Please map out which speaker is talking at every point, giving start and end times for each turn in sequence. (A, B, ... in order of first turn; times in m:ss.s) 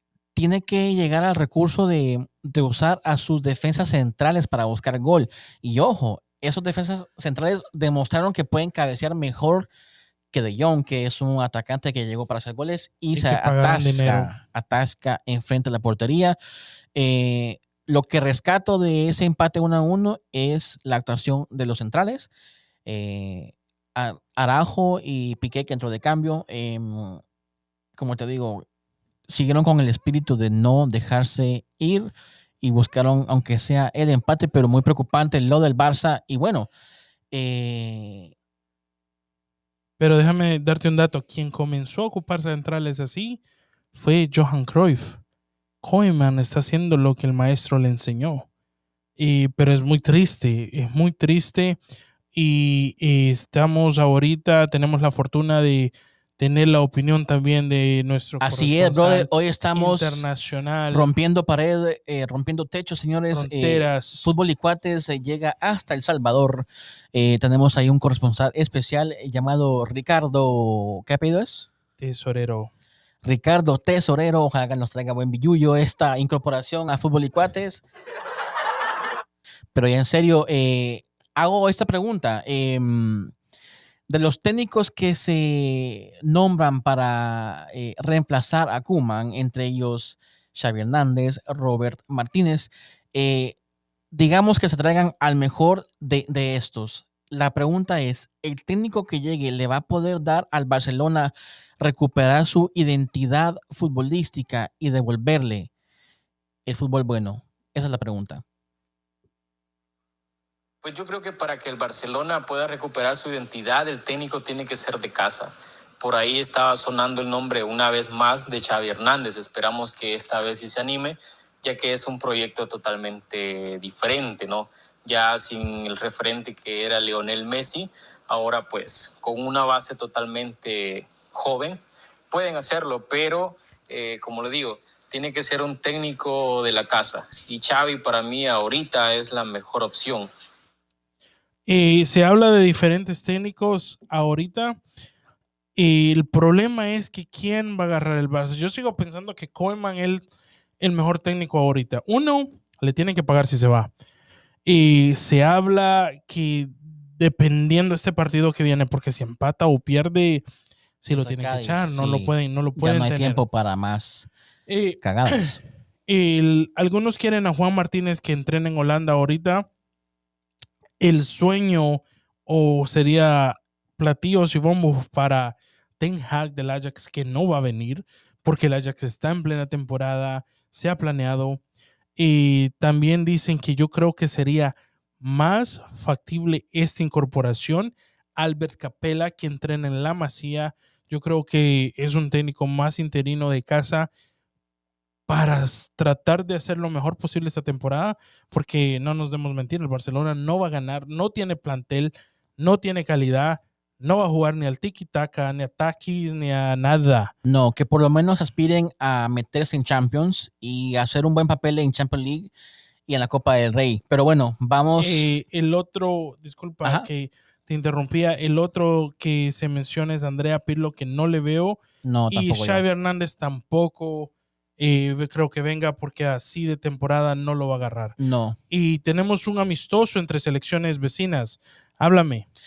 0:00.3-0:09.7 A
0:10.3-0:16.4 A
0:13.1-0:14.3 B
0:16.9-0:22.3 A
0:22.8-0:27.2 A
0:27.9-0:28.6 A
0:29.3-0:32.1 A
0:32.6-0:36.7 A
0:37.3-0:38.3 A
0:40.0-0:43.4 B
0:43.9-0:45.2 B
0:45.8-0:48.5 B
0:49.2-0:51.8 B
0:52.3-1:01.1 B
0:58.4-1:00.2 A
1:00.9-1:11.7 A
1:03.3-1:04.3 B
1:12.0-1:12.7 B
1:13.2-1:17.8 A
1:19.7-1:23.3 A
1:24.1-1:33.6 A
1:34.1-1:45.7 A
1:46.6-1:48.4 A
1:50.8-2:11.8 C
2:12.3-2:20.3 C
2:21.7-2:24.8 B
2:25.8-2:30.3 B
2:30.8-2:33.9 B
2:34.6-2:40.4 B
2:41.0-2:43.4 B
2:41.1-2:44.3 A
2:44.7-2:45.5 B
2:45.0-2:45.6 A
2:46.1-2:49.7 B
2:51.0-3:01.6 B
3:02.2-3:14.1 B
3:15.3-3:27.3 B
3:27.4-3:32.5 A
3:33.1-3:35.3 A
3:35.0-3:48.2 B
3:42.0-3:42.8 A
3:48.2-3:48.6 A
3:48.7-3:52.4 B